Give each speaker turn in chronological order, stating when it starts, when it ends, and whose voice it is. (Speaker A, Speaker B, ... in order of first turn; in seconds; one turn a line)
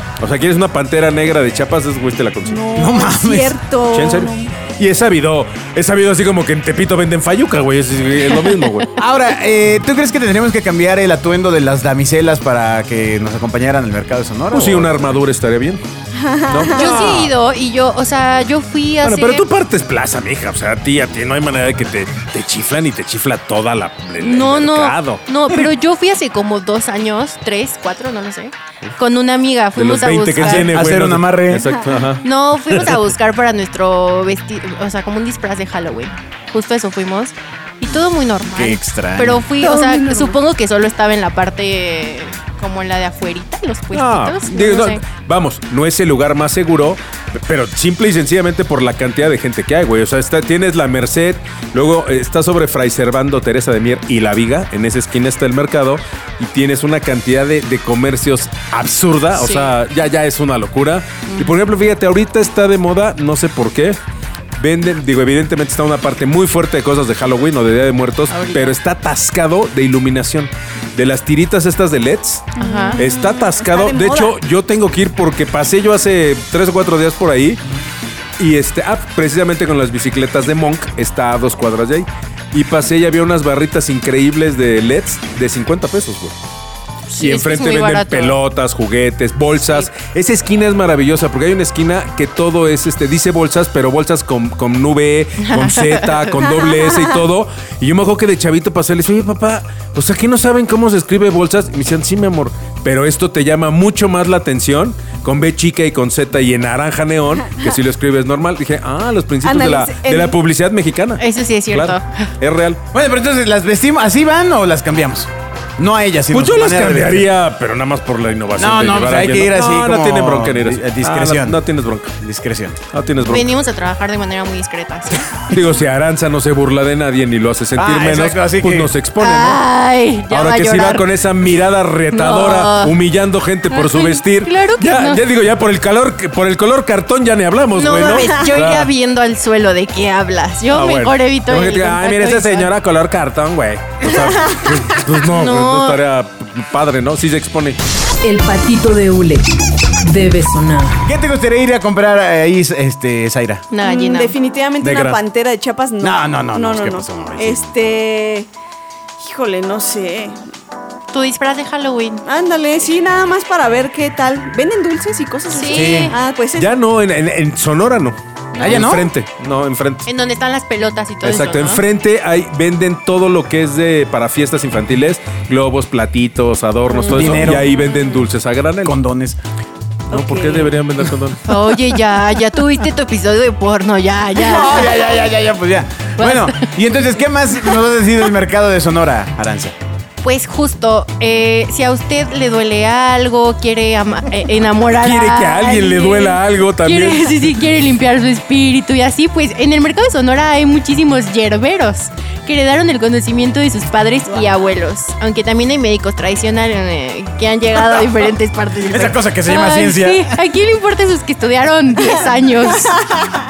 Speaker A: 0.2-2.6
Speaker B: 2.4-4.6
Speaker C: 2.7-3.6
Speaker A: 3.9-8.9
Speaker C: 9.0-14.9
Speaker A: 14.5-15.8
Speaker B: 16.1-17.2
Speaker A: 16.5-17.3
Speaker D: 16.7-19.5
Speaker A: 19.0-25.2
Speaker D: 24.2-30.7
Speaker A: 29.7-33.1
Speaker C: 30.4-31.7
Speaker D: 32.2-45.0
Speaker C: 38.5-39.4
Speaker B: 39.6-40.4
Speaker A: 43.9-64.0
Speaker D: 59.3-59.7
Speaker D: 61.3-61.5
Speaker A: 64.6-77.6
Speaker D: 68.3-68.8
Speaker D: 72.6-73.0
Speaker B: 72.6-74.3
Speaker A: 78.4-86.3
Speaker A: 87.1-112.8
Speaker D: 87.2-88.4
Speaker D: 95.4-96.6
Speaker B: 109.4-110.3
Speaker D: 111.2-112.3
Speaker C: 112.9-117.3
Speaker A: 116.3-122.2
Speaker C: 118.5-121.6
Speaker C: 122.2-122.8
Speaker A: 122.9-123.5
Speaker D: 123.2-125.3
Speaker A: 125.5-129.6
Speaker C: 127.8-128.9
Speaker D: 129.2-131.1
Speaker A: 130.3-138.9
Speaker D: 132.1-133.0
Speaker D: 133.7-135.2
Speaker D: 137.7-142.7
Speaker A: 140.7-147.8
Speaker D: 145.2-146.0
Speaker E: 148.2-149.4
Speaker E: 150.0-151.0
Speaker C: 151.0-153.6
Speaker D: 153.7-154.4
Speaker B: 153.8-158.5
Speaker C: 154.8-155.1
Speaker C: 156.0-157.8
Speaker B: 159.2-160.4
Speaker D: 161.1-162.2
Speaker B: 162.2-166.7
Speaker D: 165.5-166.2
Speaker C: 165.7-166.1
Speaker A: 166.5-170.1
Speaker D: 168.5-168.8
Speaker C: 168.6-169.1
Speaker D: 170.1-171.8
Speaker A: 171.2-179.0
Speaker B: 177.1-177.4
Speaker C: 177.1-177.7
Speaker C: 178.8-179.4
Speaker B: 180.1-180.7
Speaker A: 180.1-181.5
Speaker D: 181.4-185.1
Speaker C: 184.4-189.8
Speaker D: 186.2-186.7
Speaker D: 190.2-213.1
Speaker A: 195.0-197.6
Speaker C: 208.8-210.3